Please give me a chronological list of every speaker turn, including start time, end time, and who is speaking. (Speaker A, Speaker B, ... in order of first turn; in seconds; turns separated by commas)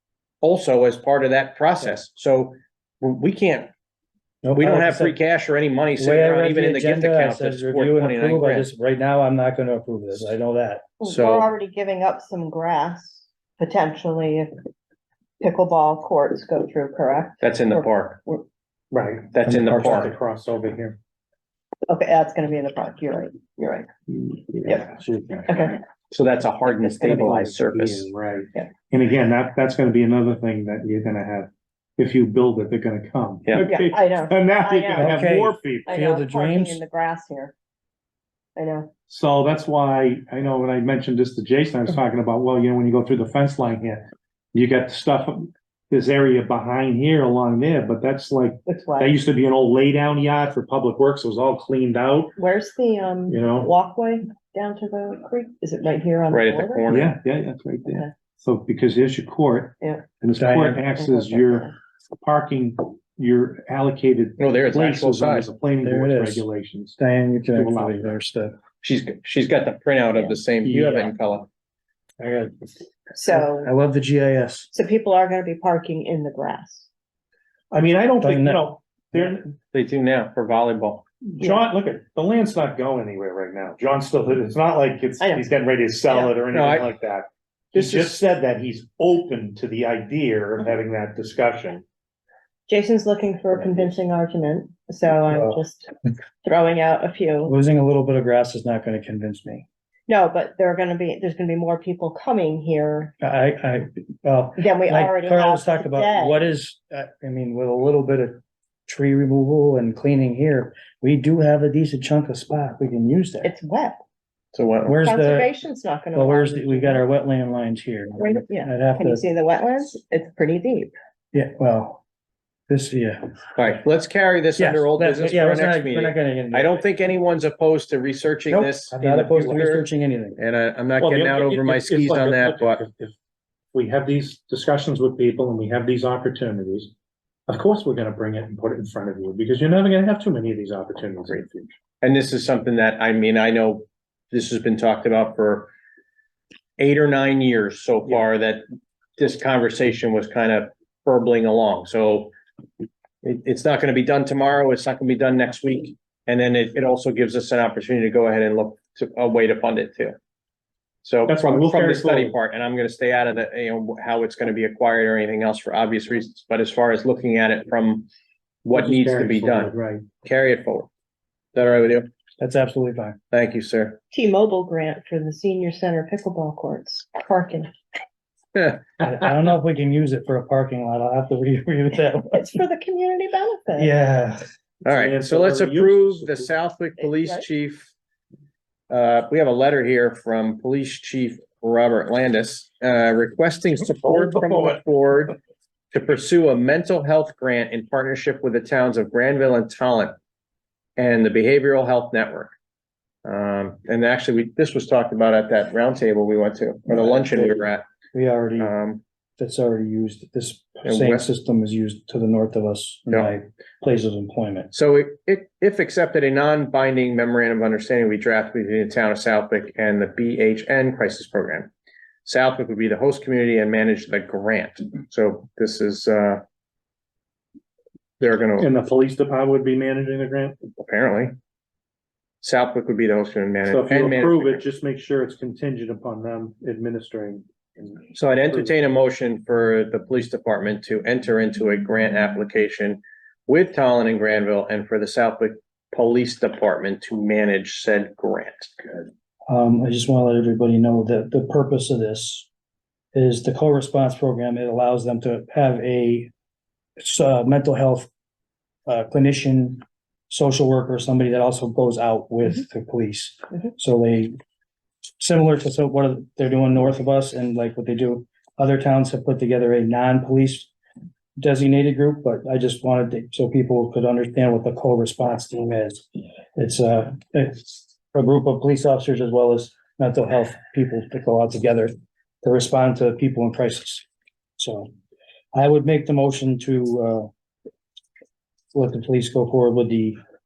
Speaker A: 0.4-3.7, Speaker B: 4.4-5.2, Speaker A: 4.5-8.7, Speaker B: 6.0-10.8, Speaker C: 11.0-14.5, Speaker A: 11.1-11.5, Speaker C: 15.4-18.4, Speaker A: 17.4-18.2, Speaker D: 18.9-21.0, Speaker A: 19.3-20.1, Speaker B: 19.4-20.1, Speaker C: 21.9-23.9, Speaker D: 24.1-25.8, Speaker C: 25.5-25.8, Speaker A: 26.1-28.1, Speaker D: 27.0-36.0, Speaker C: 33.6-35.2, Speaker B: 35.0-36.8, Speaker C: 35.9-37.5, Speaker C: 38.6-38.9, Speaker D: 39.1-52.4, Speaker C: 48.7-49.1, Speaker C: 52.4-56.9, Speaker D: 53.3-53.7, Speaker A: 56.3-57.2, Speaker D: 56.9-67.0, Speaker C: 57.9-58.1, Speaker B: 60.4-60.8, Speaker C: 61.0-61.7, Speaker A: 64.4-65.5, Speaker B: 65.8-66.5, Speaker B: 67.0-68.5, Speaker D: 67.5-68.2, Speaker A: 68.8-71.5, Speaker B: 70.6-71.2, Speaker B: 72.2-72.7, Speaker C: 73.1-73.7, Speaker B: 73.3-74.7, Speaker C: 74.7-76.9, Speaker D: 77.7-79.6, Speaker B: 78.2-79.3, Speaker A: 79.7-81.0, Speaker D: 81.2-91.8, Speaker C: 85.2-85.5, Speaker C: 86.1-86.3, Speaker A: 86.5-86.9, Speaker A: 87.8-88.2, Speaker C: 92.7-95.9, Speaker B: 95.3-95.5, Speaker C: 96.4-97.5, Speaker B: 97.5-99.7, Speaker C: 100.1-103.1, Speaker B: 103.2-113.5, Speaker C: 104.6-106.4, Speaker C: 113.4-114.0, Speaker A: 114.5-115.0, Speaker B: 114.8-115.5, Speaker C: 115.0-117.0, Speaker B: 116.1-119.2, Speaker C: 118.2-120.9, Speaker B: 121.3-122.0, Speaker B: 122.7-123.3, Speaker A: 123.6-129.9, Speaker B: 124.6-126.9, Speaker B: 128.5-130.4, Speaker A: 130.4-132.8, Speaker D: 131.0-133.2, Speaker D: 133.7-136.9, Speaker D: 137.5-141.8, Speaker A: 142.0-145.7, Speaker A: 146.8-148.7, Speaker A: 149.2-152.3, Speaker A: 153.2-160.2, Speaker A: 161.0-168.1, Speaker D: 161.3-162.4, Speaker A: 168.7-169.7, Speaker D: 168.7-170.1, Speaker A: 170.2-170.9, Speaker A: 171.6-172.1, Speaker B: 172.4-173.2, Speaker A: 173.3-174.0, Speaker C: 174.1-177.7, Speaker B: 179.0-182.5, Speaker C: 182.3-183.9, Speaker B: 183.8-184.4, Speaker A: 184.8-187.9, Speaker D: 184.9-186.5, Speaker C: 187.0-187.4, Speaker A: 188.9-195.3, Speaker A: 195.9-200.2, Speaker A: 201.0-202.5, Speaker A: 203.2-207.8, Speaker B: 206.9-207.6, Speaker B: 208.1-208.7, Speaker A: 208.6-209.0, Speaker B: 209.4-214.7, Speaker A: 210.8-211.3, Speaker A: 213.1-213.3, Speaker A: 214.7-221.7, Speaker A: 222.2-226.4, Speaker A: 228.2-228.7, Speaker D: 228.6-230.6, Speaker A: 230.8-231.3, Speaker A: 232.4-234.6, Speaker D: 233.7-238.7, Speaker A: 238.1-249.1, Speaker B: 249.5-252.5, Speaker B: 253.1-256.3, Speaker B: 257.0-258.1, Speaker B: 258.9-264.4, Speaker B: 265.2-270.7, Speaker B: 271.4-284.1, Speaker B: 284.6-284.9, Speaker B: 285.5-287.3, Speaker B: 288.7-290.2